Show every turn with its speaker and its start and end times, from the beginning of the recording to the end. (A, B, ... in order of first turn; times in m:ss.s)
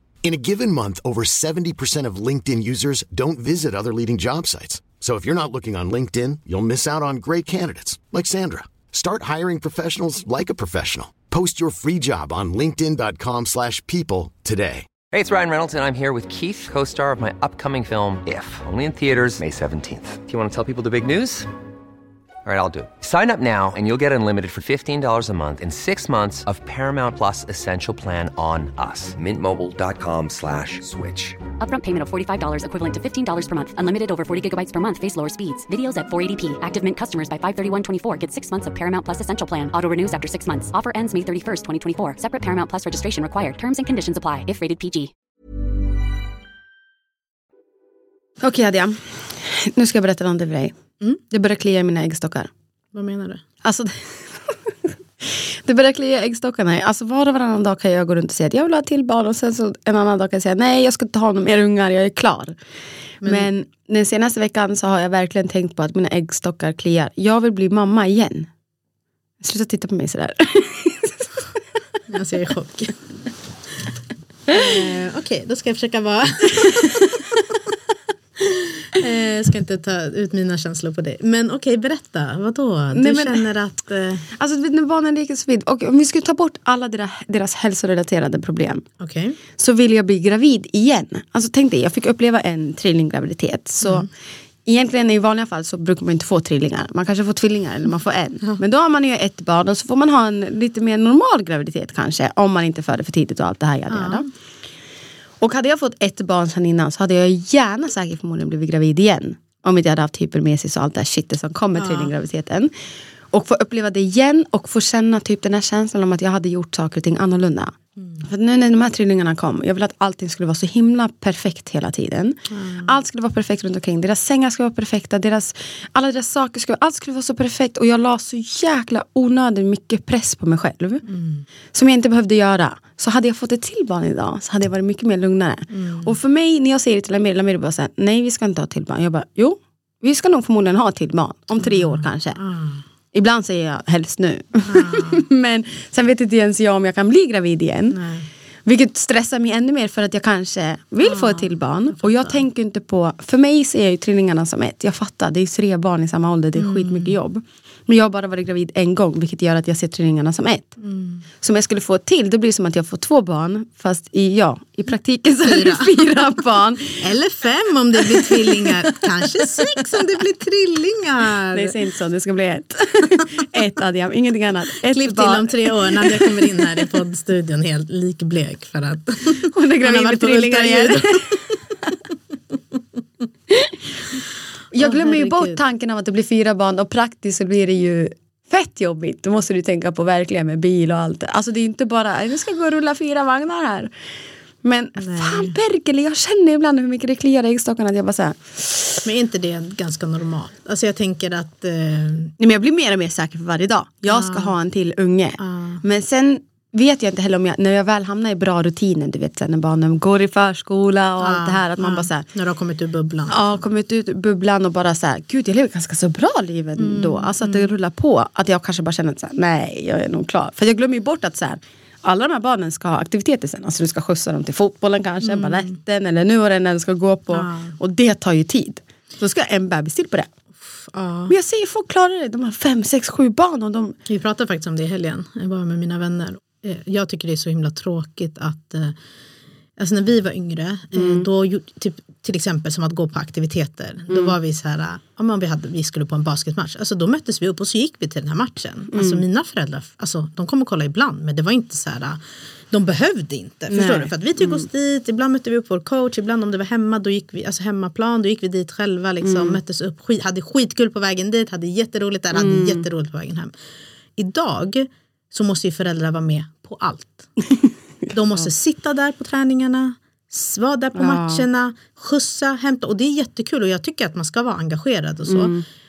0:00.2-0:14.9 A
0:15.1-0:21.5 B
0:22.4-0:31.4 B
0:31.6-0:45.1 C
0:48.4-0:50.8 D
0:51.3-0:52.5 D
0:52.9-0:53.4 E
0:53.6-0:54.7 D
0:55.2-1:02.6 D
1:03.2-1:03.5 E
1:03.2-1:08.5 D
1:09.4-1:11.4 D
1:12.1-1:13.0 E
1:14.5-1:17.6 E
1:16.6-1:17.0 D
1:18.4-1:24.3 E
1:22.9-1:23.5 D
1:24.4-1:28.8 D
1:29.0-1:29.4 E
1:29.6-1:34.1 D
1:33.8-1:34.1 E
1:34.6-1:44.2 D
1:43.9-1:44.3 E
1:45.4-1:52.7 D
1:51.8-1:52.1 E
1:53.3-2:11.0 D
2:02.5-2:02.9 E
2:11.0-2:11.4 E
2:11.7-2:22.4 D
2:15.7-2:16.1 E
2:21.6-2:22.8 E
2:23.1-2:28.0 D
2:24.6-2:25.2 E
2:27.9-2:28.3 E
2:28.6-2:40.8 D
2:31.0-2:32.4 E
2:36.6-2:37.1 E
2:40.8-2:41.2 E
2:41.4-2:47.0 D
2:45.4-2:46.0 E
2:47.0-2:51.7 E
2:48.0-2:50.0 D
2:51.5-2:56.8 D
2:54.8-3:01.6 E
2:59.5-3:01.4 D
3:03.5-3:03.8 D
3:04.7-3:13.9 D
3:04.8-3:05.6 E
3:14.6-3:19.0 D
3:15.0-3:15.5 E
3:19.0-3:22.3 E
3:22.4-3:32.2 D
3:24.0-3:24.5 E
3:25.4-3:25.8 E
3:31.2-3:33.6 E
3:33.3-3:50.3 D
3:36.8-3:37.7 E
3:45.2-3:45.7 E
3:47.3-3:47.8 E
3:50.8-3:51.3 E
3:51.3-3:54.0 D
3:54.0-3:59.0 E
3:59.8-4:12.2 E
4:00.9-4:01.2 D
4:04.1-4:04.3 D
4:08.9-4:09.2 D
4:12.7-4:23.5 E
4:13.7-4:14.6 D
4:19.2-4:19.6 D
4:22.3-4:22.8 D
4:24.2-4:27.3 E
4:27.5-4:28.5 D
4:28.1-4:35.5 E
4:30.9-4:31.4 D
4:35.3-4:35.6 D